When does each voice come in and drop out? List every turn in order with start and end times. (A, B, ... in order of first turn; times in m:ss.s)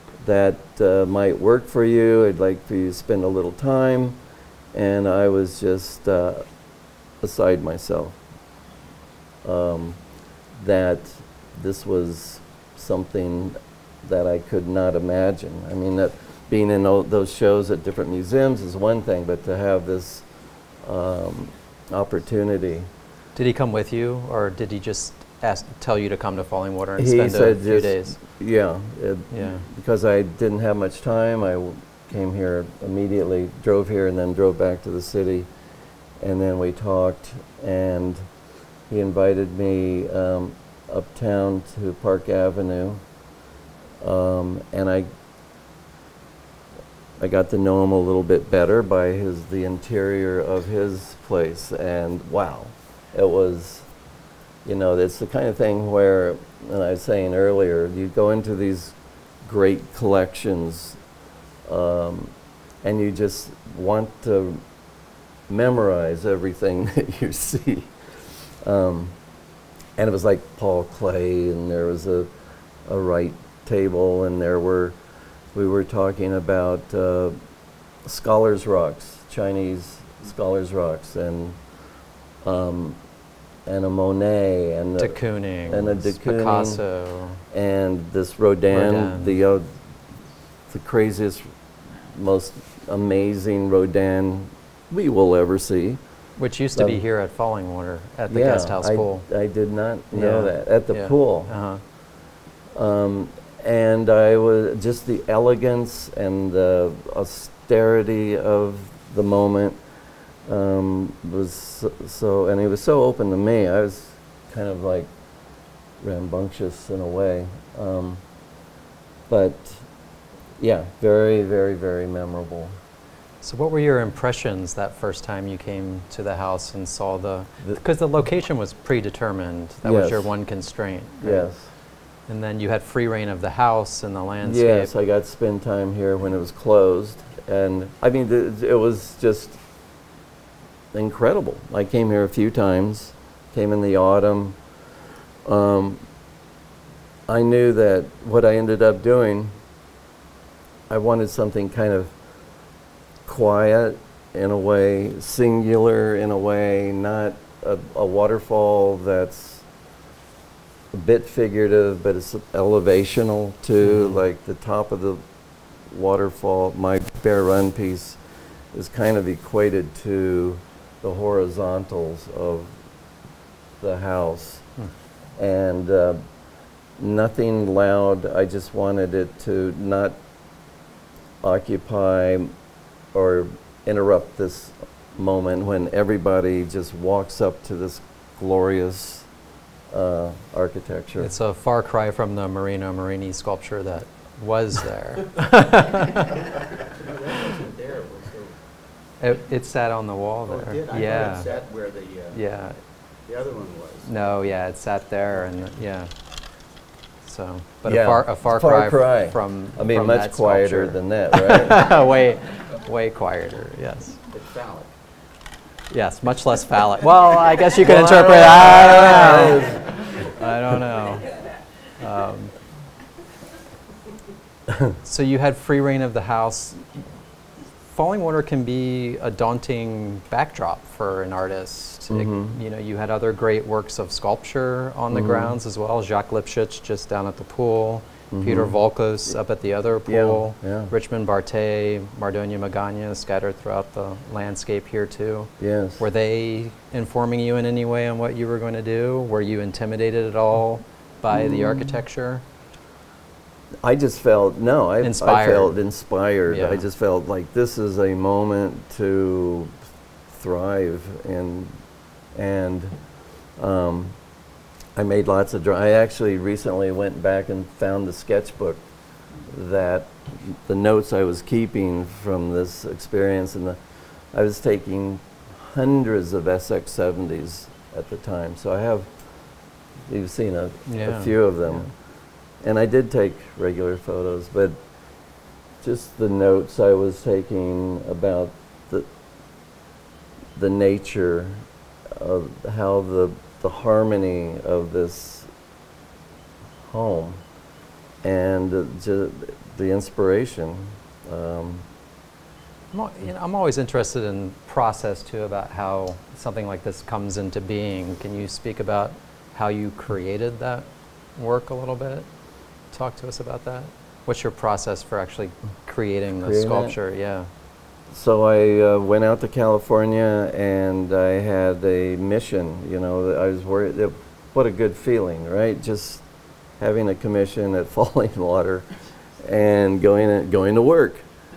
0:00.2-0:04.2 A
0:04.7-0:06.5 A
0:07.2-0:08.2 A
0:09.4-0:10.0 A
0:10.6-0:20.3 A
0:20.8-0:22.9 A
0:23.4-0:28.2 B
0:27.0-0:35.5 A
0:29.3-0:29.7 B
0:36.2-0:38.3 A
0:38.9-0:43.0 A
0:44.0-0:45.1 A
0:47.2-0:53.9 A
0:54.6-1:01.0 A
1:01.7-1:04.6 A
1:05.5-1:07.9 A
1:08.6-1:09.2 A
1:10.0-1:12.3 A
1:12.9-1:15.0 A
1:15.5-1:17.4 A
1:18.0-1:21.6 A
1:22.4-1:23.0 A
1:23.7-1:26.8 A
1:25.0-1:27.4 B
1:27.5-1:29.7 A
1:28.7-1:29.4 B
1:30.7-1:31.5 A
1:32.1-1:36.0 A
1:36.4-1:39.2 B
1:36.7-1:37.0 A
1:38.3-1:41.5 A
1:40.1-1:41.8 B
1:42.7-1:49.8 A
1:50.5-1:55.1 A
1:56.0-1:58.2 A
1:59.3-1:59.8 A
2:00.6-2:02.8 A
2:03.4-2:11.5 B
2:09.8-2:10.3 A
2:11.2-2:11.7 A
2:12.3-2:14.9 B
2:14.4-2:19.6 A
2:20.9-2:24.6 A
2:25.5-2:26.0 A
2:27.3-2:29.5 A
2:30.9-2:32.1 A
2:33.2-2:39.6 A
2:40.9-2:45.2 A
2:43.8-2:44.2 B
2:45.9-2:48.2 A
2:48.7-2:52.7 A
2:53.8-2:54.7 A
2:55.4-2:56.2 A
2:57.0-3:00.2 A
3:01.4-3:02.5 A
3:03.1-3:09.3 A
3:09.9-3:11.3 A
3:11.2-3:16.3 B
3:16.8-3:18.6 C
3:19.2-3:21.5 B
3:20.5-3:22.4 C
3:22.3-3:22.8 B
3:23.3-3:24.1 C
3:24.1-3:26.1 B
3:27.2-3:34.2 B
3:27.8-3:31.8 A
3:34.3-3:34.9 C
3:35.9-3:41.3 B
3:37.8-3:39.8 A
3:42.0-3:42.5 B
3:44.7-3:45.0 A
3:45.0-3:47.0 B
3:47.9-4:12.4 B
3:52.1-3:52.6 A
3:55.1-3:55.6 A
3:58.3-3:58.8 A
4:00.1-4:00.9 A
4:05.6-4:06.0 A
4:11.3-4:11.9 A
4:13.8-4:19.7 A
4:15.0-4:15.8 B
4:16.5-4:16.9 B
4:20.3-4:21.8 A
4:22.3-4:23.0 A
4:23.6-4:24.2 A
4:25.0-4:28.8 A
4:29.5-4:33.8 A
4:34.3-4:39.2 A
4:40.1-4:41.9 A
4:40.9-4:41.9 B
4:42.6-4:44.8 A
4:45.8-4:49.1 A
4:50.6-4:55.5 A
4:56.9-4:57.4 A
4:58.2-5:01.8 A
5:02.9-5:12.3 B
5:12.9-5:17.5 B
5:16.3-5:17.0 A
5:18.1-5:26.2 A
5:26.8-5:28.9 A
5:29.4-5:31.2 A